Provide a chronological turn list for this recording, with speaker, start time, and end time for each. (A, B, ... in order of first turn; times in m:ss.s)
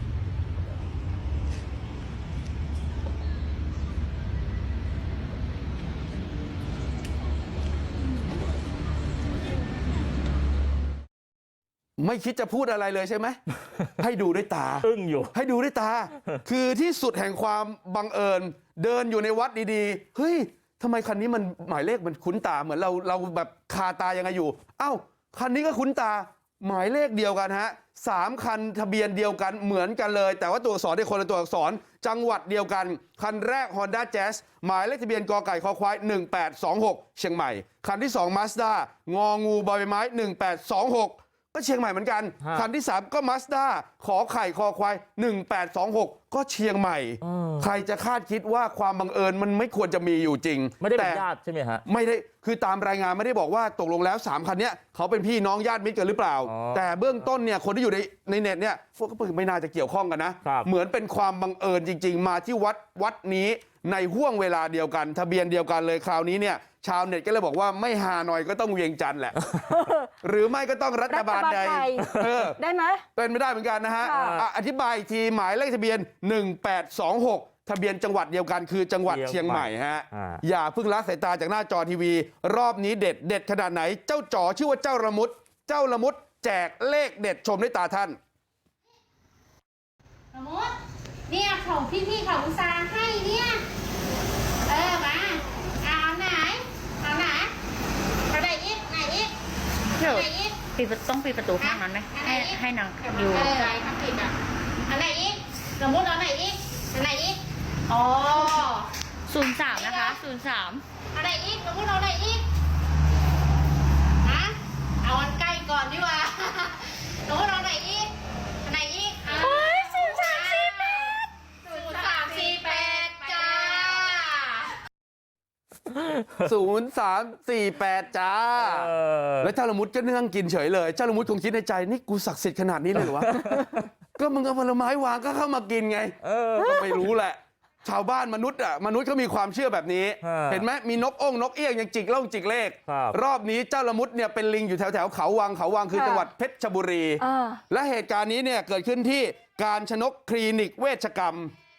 0:12.0-0:13.4 A
0:13.9-0:51.2 A
0:14.8-0:15.3 B
0:47.2-0:47.7 B
0:50.8-0:51.8 B
0:51.9-1:09.5 A
0:56.5-0:56.9 B
1:09.7-1:10.1 C
1:10.2-1:12.6 A
1:11.1-1:13.0 C
1:13.2-1:28.2 A
1:14.0-1:14.4 C
1:19.1-1:20.4 B
1:30.3-1:30.7 D
1:31.3-1:33.6 D
1:34.7-1:37.5 D
1:38.3-1:39.3 D
1:40.0-1:43.7 E
1:40.0-1:40.6 D
1:41.6-1:44.3 D
1:44.9-1:48.9 D
1:47.9-1:48.6 E
1:49.3-1:50.8 E
1:49.7-1:50.2 D
1:51.1-1:52.4 D
1:54.2-1:58.1 D
1:58.6-2:01.1 D
1:59.4-2:01.2 C
2:01.6-2:04.7 D
2:06.4-2:31.5 A
2:08.6-2:09.5 B
2:13.0-2:13.9 B
2:16.2-2:17.1 B
2:20.2-2:20.7 B
2:22.9-2:23.2 B
2:25.9-2:26.3 C
2:27.2-2:27.6 C